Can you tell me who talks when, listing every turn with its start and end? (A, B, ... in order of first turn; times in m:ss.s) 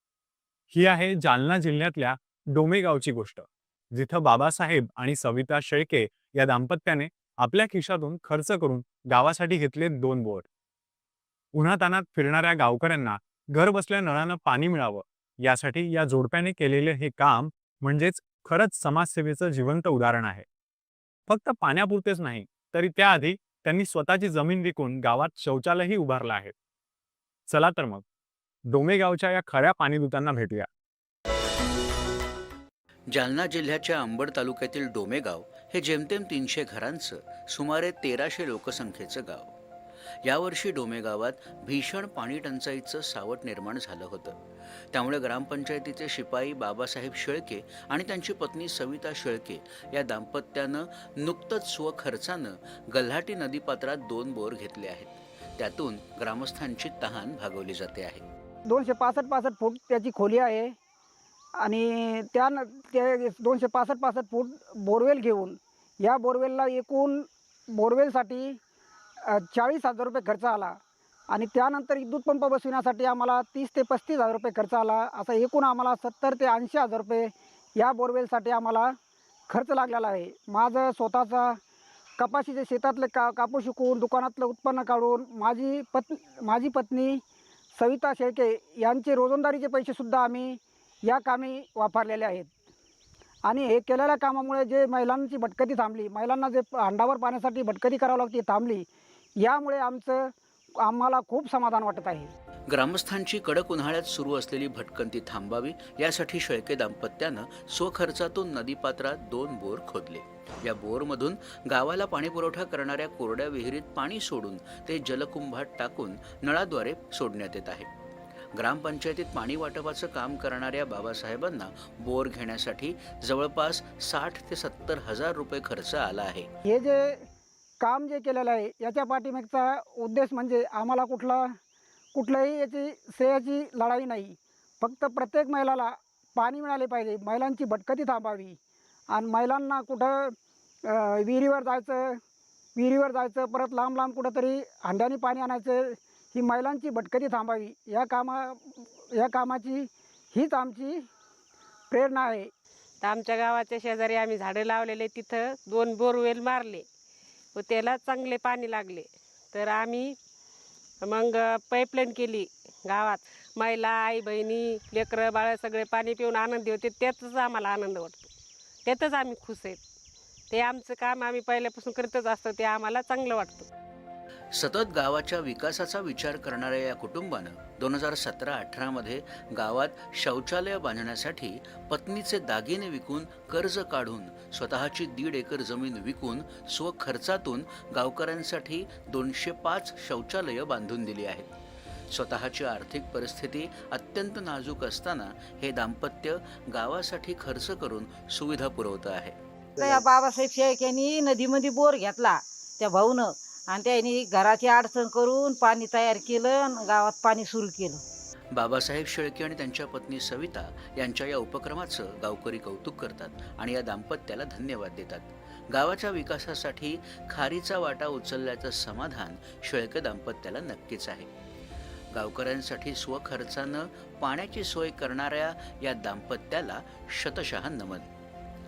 0:00.7-0:10.5 A
0:11.5-0:20.5 A
0:21.3-0:26.5 A
0:27.5-0:28.0 A
0:28.7-0:30.7 A
0:33.1-0:39.5 B
0:40.2-0:44.4 B
0:44.9-0:58.2 B
0:58.7-1:00.7 C
1:01.6-1:08.6 C
1:09.3-1:10.8 C
1:11.3-1:19.0 C
1:19.5-1:21.6 C
1:22.2-1:27.2 C
1:27.7-1:32.5 C
1:33.5-1:38.9 C
1:39.4-1:42.3 C
1:42.7-1:57.9 B
1:58.6-2:06.5 B
2:06.7-2:07.2 C
2:07.8-2:11.6 C
2:12.1-2:18.6 C
2:19.1-2:22.2 C
2:22.8-2:31.0 C
2:31.9-2:32.5 C
2:33.0-2:36.9 D
2:37.6-2:40.2 D
2:41.0-2:48.3 D
2:48.8-2:49.8 D
2:50.5-2:53.7 D
2:54.6-3:11.5 B
3:12.1-3:19.4 B
3:19.8-3:28.0 E
3:28.6-3:41.3 B
3:42.1-3:48.1 B